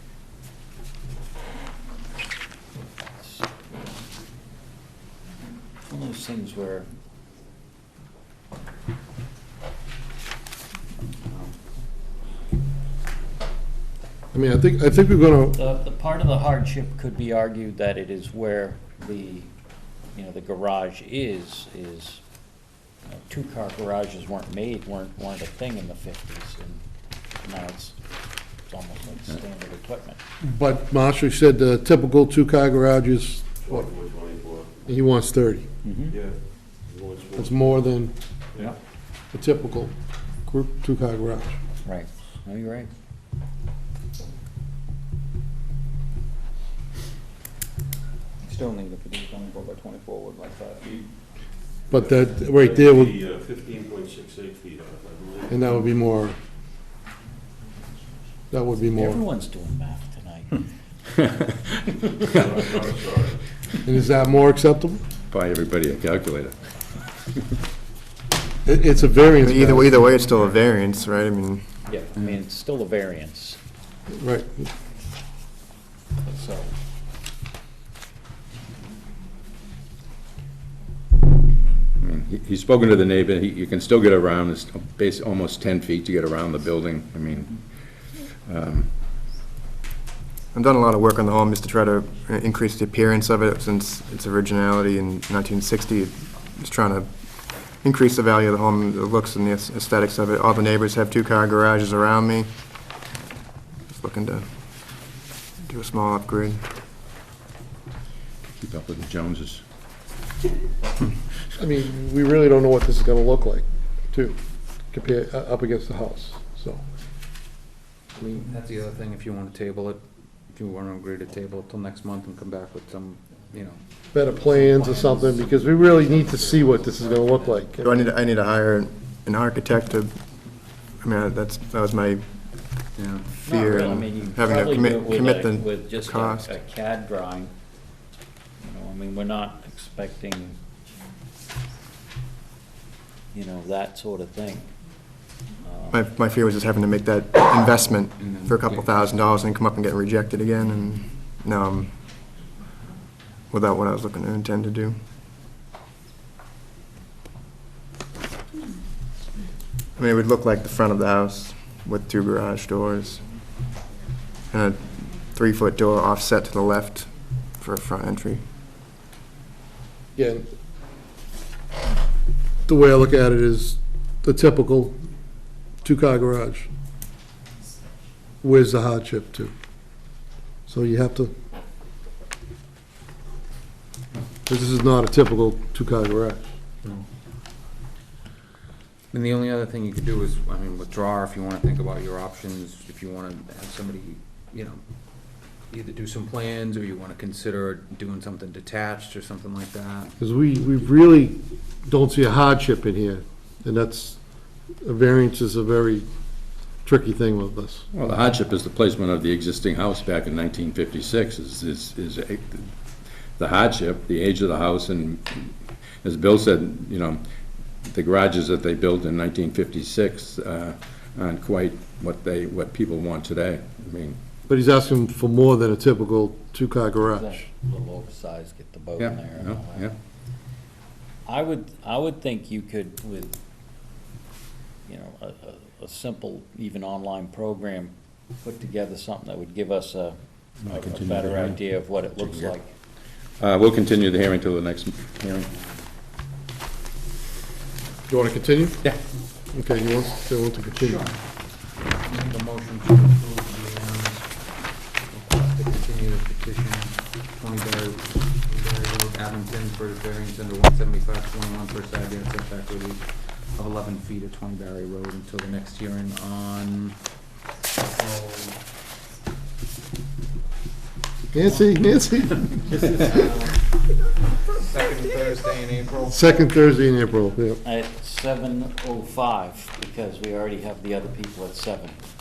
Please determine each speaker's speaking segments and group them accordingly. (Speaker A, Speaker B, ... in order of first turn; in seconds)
Speaker A: 3.2-3.5, 5.8-6.9, 15.5-19.5, 20.1-22.2, 23.1-26.8, 27.4-28.0, 28.6-30.2, 35.8-36.2, 41.8-42.9, 58.9-60.6, 71.9-73.6, 76.2-76.7, 133.4-137.5, 138.6-140.6, 143.3-144.7, 145.6-146.1, 227.1-229.9, 231.2-233.4, 234.9-242.7, 277.6-282.0
Speaker B: 14.3-15.6, 30.4-33.9, 34.9-35.7, 37.4-38.1, 39.3-39.9, 40.5-41.6, 51.9-53.2, 55.5-56.4, 58.5-59.2, 63.8-65.1, 68.6-70.0, 74.1-74.7, 111.6-114.4, 114.9-116.8, 124.1-128.1, 170.2-170.4, 172.7-175.0, 175.8-176.7, 178.4-179.5, 180.7-181.3, 184.5-186.4, 200.2-204.2, 204.8-206.1, 206.8-207.9, 224.5-227.3, 248.1-248.8, 249.5-251.0, 271.3-272.5, 276.1-277.6
Speaker C: 33.6-34.7, 36.1-37.6, 52.0-55.6, 62.3-63.4
Speaker D: 48.4-51.1, 118.1-127.7, 133.0-133.3, 148.2-149.1, 189.1-194.8, 195.7-200.1, 250.8-251.1, 251.8-267.0, 267.8-268.6, 272.5-273.6, 274.5-276.5
Speaker E: 61.2-62.2, 65.3-66.6, 82.0-88.9, 108.5-109.6, 207.9-212.7, 213.4-217.2, 217.8-224.2, 229.0-229.9, 240.7-242.5, 243.4-245.5
Speaker F: 69.4-71.6, 90.5-102.5, 103.9-104.5, 105.6-106.6, 127.8-130.2, 131.0-132.2, 133.4-136.5, 145.9-151.9, 153.5-155.0, 160.0-163.2, 164.5-168.4